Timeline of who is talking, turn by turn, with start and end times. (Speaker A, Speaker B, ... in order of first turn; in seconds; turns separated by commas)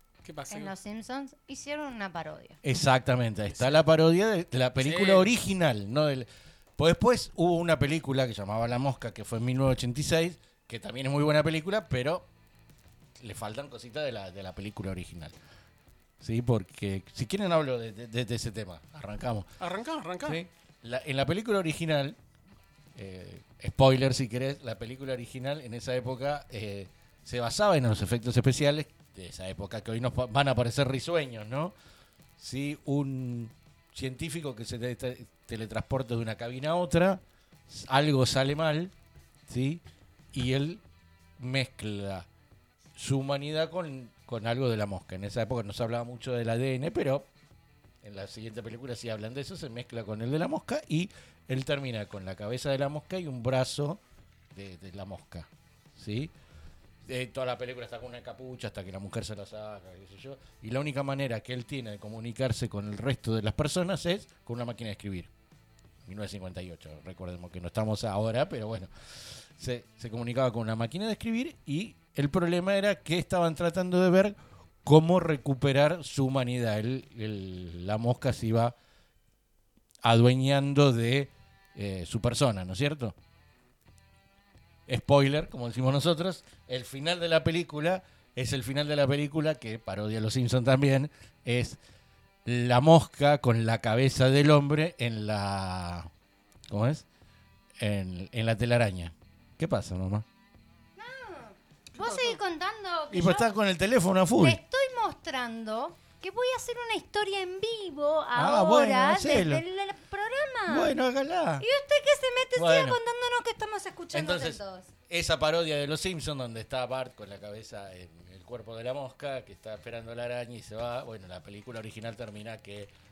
Speaker A: 0.2-0.7, Speaker B: 0.5-2.6, Speaker C: 2.6-12.3, Speaker A: 3.5-3.8, Speaker A: 4.8-5.3, Speaker C: 13.2-15.3, Speaker C: 16.2-19.5, Speaker A: 19.6-20.4, Speaker C: 20.2-22.2, Speaker C: 22.9-31.8, Speaker C: 32.4-38.9, Speaker C: 39.5-39.8, Speaker C: 40.3-40.8, Speaker C: 41.4-42.3, Speaker C: 43.0-47.3, Speaker C: 48.0-54.0, Speaker C: 54.5-56.3, Speaker C: 57.1-65.3, Speaker C: 66.1-78.8, Speaker C: 80.0-83.2, Speaker C: 84.9-91.8, Speaker C: 92.5-96.1, Speaker C: 96.7-97.1, Speaker C: 97.8-100.3, Speaker B: 101.0-103.5, Speaker A: 102.0-102.4, Speaker C: 103.1-104.6, Speaker B: 104.4-110.9, Speaker C: 108.3-109.6, Speaker C: 110.7-111.7, Speaker B: 111.6-114.9, Speaker C: 112.6-113.0, Speaker C: 114.1-122.9